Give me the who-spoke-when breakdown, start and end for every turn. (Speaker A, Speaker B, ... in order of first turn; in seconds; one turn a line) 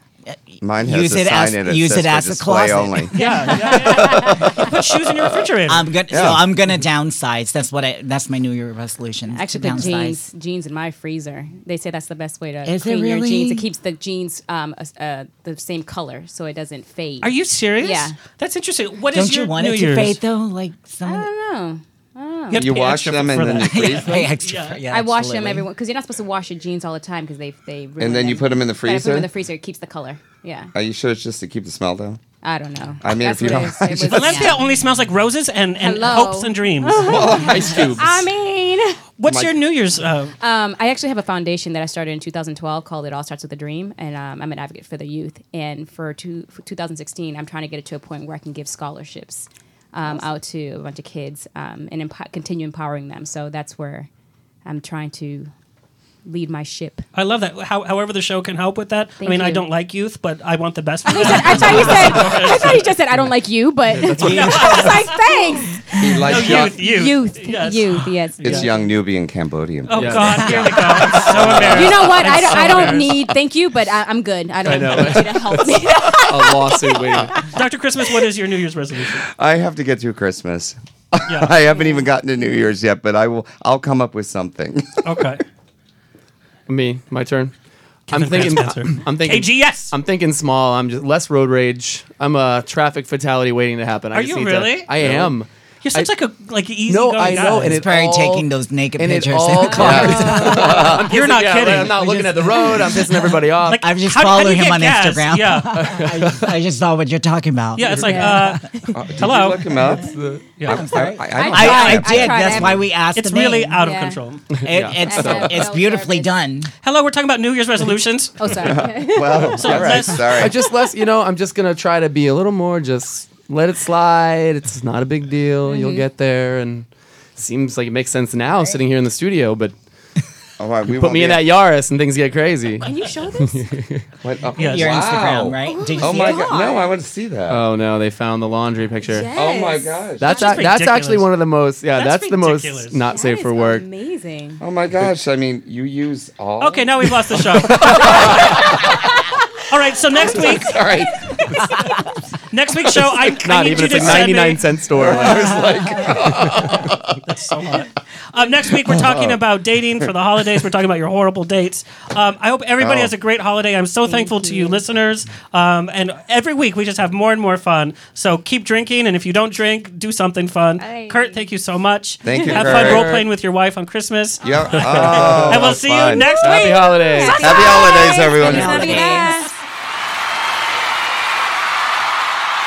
Speaker A: 0.3-4.5
Speaker B: 0.6-5.4
Speaker C: 3.1-5.9
Speaker D: 3.2-4.3
Speaker A: 5.7-10.2
Speaker B: 6.1-6.4
Speaker D: 9.3-18.2
Speaker A: 12.6-13.7
Speaker C: 17.2-20.2
Speaker A: 19.1-21.3
Speaker D: 21.0-22.7
Speaker C: 22.5-24.8
Speaker B: 22.5-24.3
Speaker A: 23.6-25.6
Speaker D: 24.9-30.7
Speaker B: 28.0-29.3
Speaker B: 30.7-32.2
Speaker D: 32.4-34.6
Speaker B: 33.0-34.5
Speaker C: 33.9-37.0
Speaker D: 35.8-39.0
Speaker B: 36.9-38.1
Speaker E: 37.3-38.3
Speaker C: 39.2-40.3
Speaker B: 39.2-39.5
Speaker D: 40.4-54.1
Speaker D: 54.6-55.5
Speaker D: 56.2-57.0
Speaker C: 57.1-62.9
Speaker D: 59.2-59.6
Speaker D: 61.1-68.7
Speaker E: 63.9-64.9
Speaker A: 64.1-65.6
Speaker C: 64.3-65.0
Speaker B: 66.0-66.8
Speaker C: 66.2-68.7
Speaker B: 68.4-71.9
Speaker C: 69.8-73.0
Speaker E: 69.9-70.5
Speaker A: 70.3-71.7
Speaker E: 71.5-73.1
Speaker D: 71.7-77.4
Speaker E: 74.6-77.5
Speaker C: 77.5-79.2
Speaker B: 79.4-85.4
Speaker C: 81.3-81.5
Speaker C: 85.0-85.4
Speaker E: 86.7-87.5
Speaker C: 88.1-89.9
Speaker E: 88.1-96.1
Speaker C: 94.1-94.9
Speaker B: 95.0-95.3
Speaker C: 95.8-97.8
Speaker E: 96.9-103.8
Speaker A: 97.2-101.2
Speaker D: 99.6-100.0
Speaker B: 99.7-101.0
Speaker C: 101.1-102.1
Speaker A: 101.7-108.6
Speaker C: 103.7-105.9
Speaker E: 105.7-106.5
Speaker C: 107.8-108.6
Speaker D: 108.0-108.9
Speaker B: 108.9-112.8
Speaker C: 109.2-109.6
Speaker E: 110.0-110.4
Speaker C: 110.6-110.9
Speaker A: 110.7-113.8
Speaker D: 111.2-112.8
Speaker C: 113.1-114.5
Speaker D: 113.8-114.2
Speaker E: 114.5-115.7
Speaker A: 114.6-116.7
Speaker D: 114.8-116.3
Speaker C: 116.8-118.7
Speaker D: 118.4-119.8
Speaker B: 118.5-120.6
Speaker C: 119.4-120.4
Speaker E: 120.3-129.7
Speaker D: 125.7-126.0
Speaker B: 130.6-131.4
Speaker E: 130.9-132.8
Speaker D: 132.8-133.7
Speaker E: 133.4-134.1
Speaker B: 134.2-137.6
Speaker C: 134.6-135.0
Speaker A: 134.6-136.6
Speaker D: 135.6-136.9
Speaker E: 137.5-139.3
Speaker D: 139.0-140.6
Speaker B: 139.3-140.2
Speaker E: 140.2-143.8
Speaker C: 140.2-141.3
Speaker C: 141.9-143.0
Speaker D: 143.1-144.6
Speaker B: 144.6-149.2
Speaker C: 146.6-148.7
Speaker C: 149.7-150.7
Speaker B: 150.1-151.5
Speaker D: 151.4-152.0
Speaker C: 152.5-154.7
Speaker B: 153.1-154.3
Speaker E: 153.4-156.4
Speaker B: 154.9-157.2
Speaker C: 157.2-177.3
Speaker B: 158.8-159.4
Speaker B: 162.8-163.1
Speaker D: 164.1-164.8
Speaker D: 170.8-171.5
Speaker B: 172.2-173.2
Speaker D: 172.3-172.6
Speaker E: 172.5-173.2
Speaker D: 174.4-175.1
Speaker B: 174.4-176.4
Speaker E: 175.1-175.5
Speaker D: 176.1-179.5
Speaker E: 176.4-177.7
Speaker B: 177.3-179.2
Speaker A: 178.4-179.4